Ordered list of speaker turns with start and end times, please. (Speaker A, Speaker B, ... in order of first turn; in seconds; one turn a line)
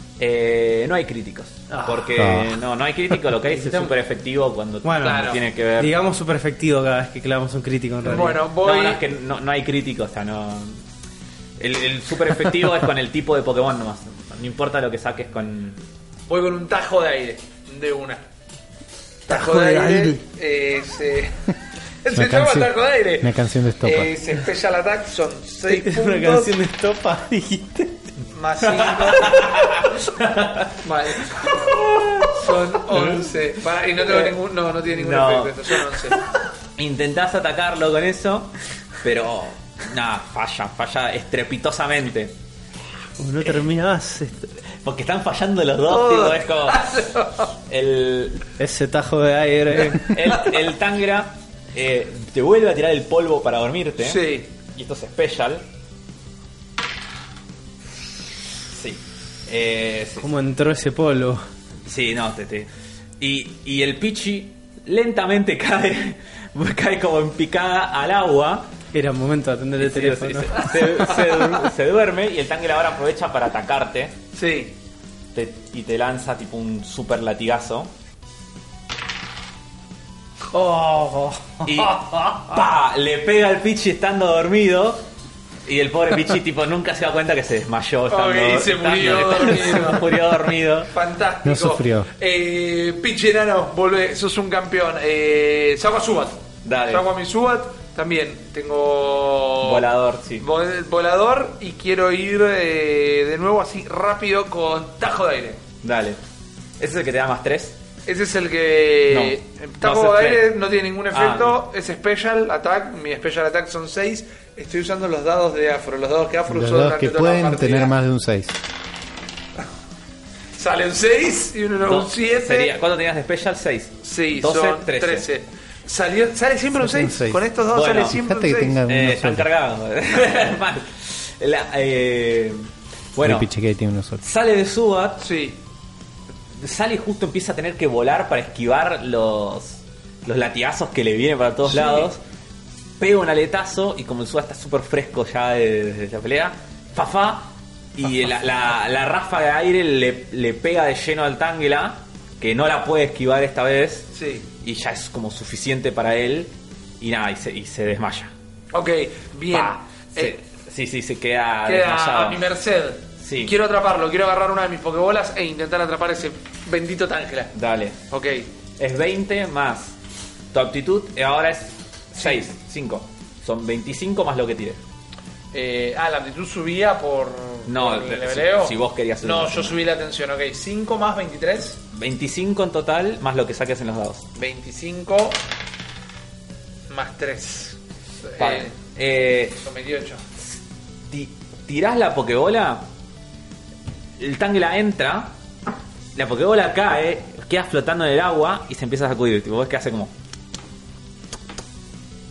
Speaker A: 0.2-5.9
Speaker B: 1.7-2.3
Speaker C: 2.2-2.5
Speaker B: 3.4-4.0
Speaker B: 4.8-8.4
Speaker D: 5.0-5.4
Speaker D: 8.0-9.0
Speaker A: 8.6-10.8
Speaker A: 11.6-15.8
Speaker D: 16.3-18.2
Speaker D: 19.3-21.4
Speaker B: 19.3-20.2
Speaker D: 22.0-26.6
Speaker C: 22.1-24.1
Speaker B: 25.7-28.1
Speaker D: 28.3-29.9
Speaker A: 28.6-30.8
Speaker D: 30.8-31.7
Speaker A: 31.4-32.4
Speaker D: 32.2-36.2
Speaker A: 32.9-33.3
Speaker A: 34.0-34.4
Speaker A: 34.9-36.1
Speaker A: 36.8-42.3
Speaker B: 43.2-44.5
Speaker A: 44.8-47.1
Speaker D: 45.9-47.3
Speaker A: 47.7-48.4
Speaker B: 48.6-50.1
Speaker A: 49.9-55.6
Speaker D: 54.0-54.5
Speaker A: 58.7-60.3
Speaker B: 60.2-61.4
Speaker A: 61.9-68.7
Speaker B: 68.9-70.8
Speaker A: 69.8-74.2
Speaker D: 70.7-71.4
Speaker D: 74.3-74.8
Speaker A: 75.3-77.9
Speaker B: 80.5-81.6
Speaker A: 81.6-85.0
Speaker A: 85.7-90.9
Speaker D: 88.1-90.2
Speaker D: 90.9-99.8
Speaker C: 91.4-92.1
Speaker A: 96.6-97.0
Speaker A: 99.6-100.5
Speaker D: 100.4-105.6
Speaker A: 105.8-106.2
Speaker A: 106.8-107.8
Speaker D: 108.1-117.9
Speaker A: 109.1-110.5
Speaker A: 111.1-111.6
Speaker C: 116.5-118.6
Speaker D: 120.5-122.8
Speaker A: 121.8-125.3
Speaker D: 124.0-128.8
Speaker C: 126.8-127.4
Speaker A: 127.7-128.2
Speaker C: 128.1-129.5
Speaker A: 128.9-133.5
Speaker C: 133.2-134.2
Speaker A: 134.2-135.2
Speaker D: 135.2-135.6
Speaker A: 136.6-142.2
Speaker D: 141.7-142.1
Speaker A: 143.0-154.1
Speaker D: 154.1-154.5
Speaker A: 154.6-158.3
Speaker D: 158.7-160.4
Speaker A: 159.5-162.4
Speaker D: 161.7-167.5
Speaker A: 163.2-163.6
Speaker A: 167.5-168.0
Speaker D: 168.1-168.5
Speaker A: 168.8-170.0
Speaker A: 170.5-174.8
Speaker D: 175.5-181.8
Speaker A: 177.7-179.8
Speaker A: 181.9-184.3
Speaker D: 184.4-185.4
Speaker D: 186.9-188.7
Speaker A: 188.4-189.6
Speaker D: 189.6-190.2
Speaker A: 191.1-192.8
Speaker A: 194.2-195.3
Speaker A: 196.2-200.1